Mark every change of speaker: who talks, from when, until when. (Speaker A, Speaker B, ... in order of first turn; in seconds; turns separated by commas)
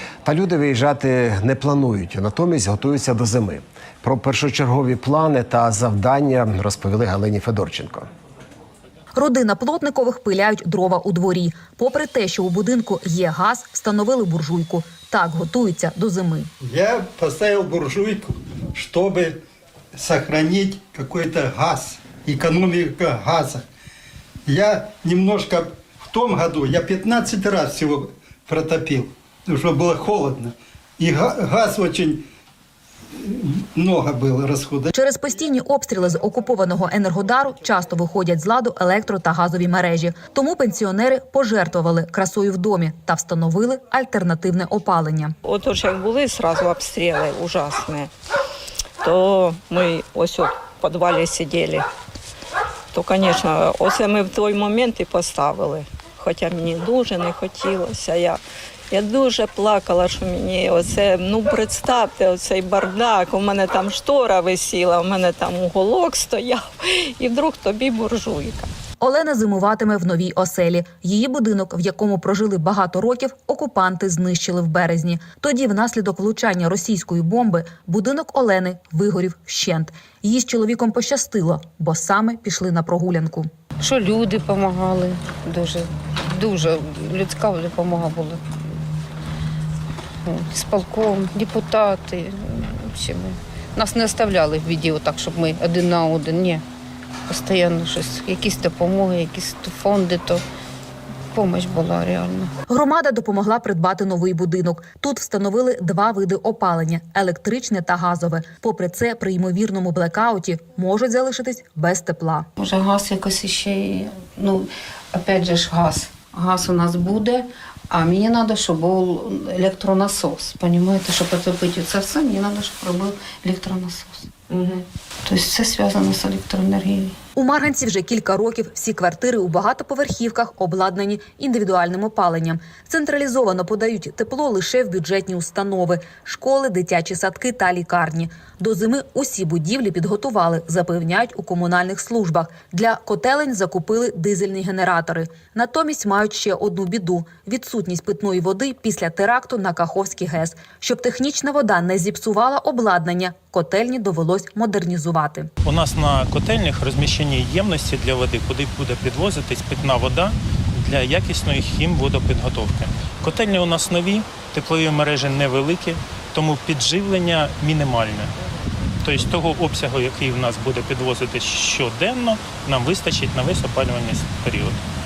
Speaker A: 0.2-8.1, Speaker B: 9.1-16.5, Speaker C: 16.6-19.4, Speaker C: 19.9-23.6, Speaker C: 24.4-32.2, Speaker C: 33.1-34.9, Speaker B: 34.9-45.3, Speaker D: 45.4-48.1, Speaker D: 49.0-51.8, Speaker D: 52.9-68.7, Speaker B: 69.0-83.5, Speaker E: 83.8-88.4, Speaker E: 90.2-96.6, Speaker E: 97.3-100.4, Speaker E: 101.3-102.5, Speaker B: 102.7-112.5, Speaker E: 112.6-127.1, Speaker B: 127.3-155.5, Speaker F: 155.6-168.3, Speaker F: 169.0-174.8